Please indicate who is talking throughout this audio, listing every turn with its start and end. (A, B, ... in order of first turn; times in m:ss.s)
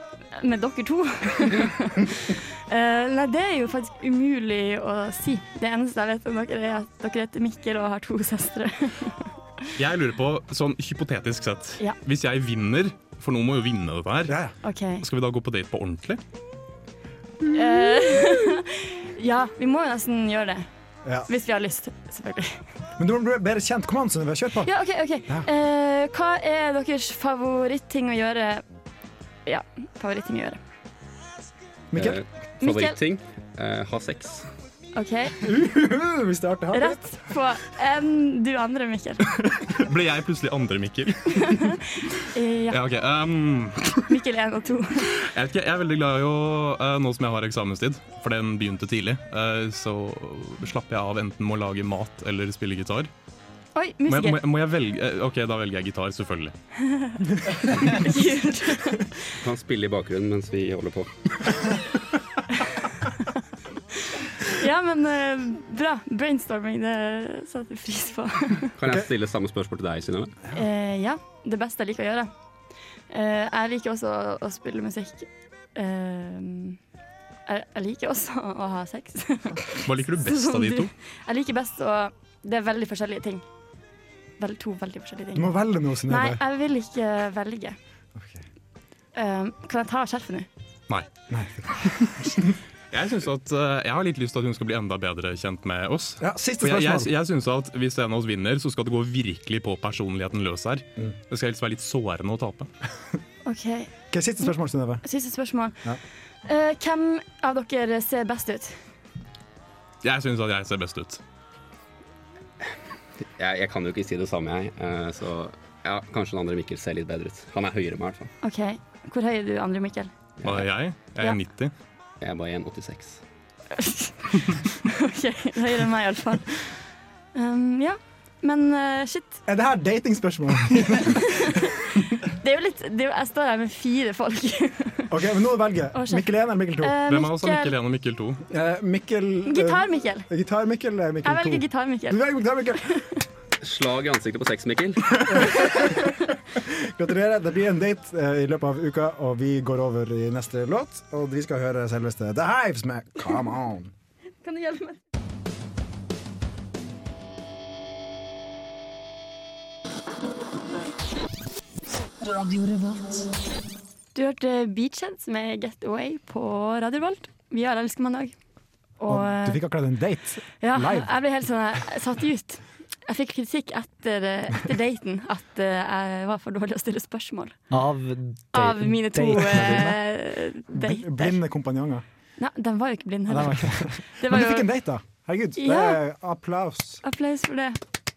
0:00.3-0:09.2 A
0:09.8-0:14.4 B
0:14.3-0:14.5 C
0:14.6-0:15.0 A
0:15.0-0:16.2 B
0:17.5-0:20.7 A
0:21.3-0:22.6 A
0:23.0-0:24.7 C
0:24.6-0:28.6 A
0:29.4-0:30.6 A
0:31.9-0:32.2 C
0:31.9-0:34.4 D
0:32.6-0:33.0 A
0:34.9-0:35.4 A
0:35.4-0:37.0 C
0:36.7-0:39.3 A
0:39.4-0:41.8 B
0:41.3-0:41.8 A
0:42.3-0:42.8 A
0:42.7-0:44.0 B
0:44.1-0:45.1 A
0:45.1-0:53.1 B
0:53.7-0:54.4 A
0:54.1-0:56.5 B
0:56.8-0:59.2 A
0:59.4-1:01.5 D
1:04.4-1:08.7 A
1:08.8-1:10.4 D
1:10.5-1:12.3 A
1:13.1-1:16.8 A
1:17.5-1:23.4 A
1:19.8-1:20.9 B
1:24.4-1:25.5 A
1:25.3-1:26.4 C
1:26.0-1:27.8 A
1:28.1-1:28.4 C
1:29.1-1:30.5 A
1:31.3-1:32.4 C
1:32.9-1:42.7 B
1:36.2-1:37.1 C
1:43.4-1:45.8 A
1:44.1-1:45.0 C
1:46.4-1:48.8 A
1:50.0-1:51.2 B
1:53.2-1:58.3 D
1:58.4-2:00.1 A
2:00.4-2:00.7 D
2:00.4-2:01.7 B
2:02.2-2:03.2 D
2:03.8-2:04.3 A
2:04.8-2:06.7 A
2:07.3-2:09.4 A
2:09.4-2:11.7 C
2:11.3-2:11.6 A
2:12.4-2:15.1 A
2:15.1-2:16.9 C
2:15.9-2:16.2 A
2:16.8-2:17.8 A
2:17.1-2:18.4 B
2:18.5-2:23.0 C
2:19.4-2:20.3 A
2:21.2-2:22.2 A
2:23.6-2:25.7 D
2:25.3-2:33.9 C
2:34.4-2:35.0 A
2:44.1-2:48.3 A
2:49.0-2:49.6 A
2:49.1-2:51.1 C
2:50.6-2:57.6 A
2:57.7-3:00.0 E
2:58.5-3:01.4 A
3:00.7-3:02.0 C
3:02.4-3:04.7 A
3:03.3-3:07.0 C
3:05.6-3:06.0 A
3:07.0-3:07.8 A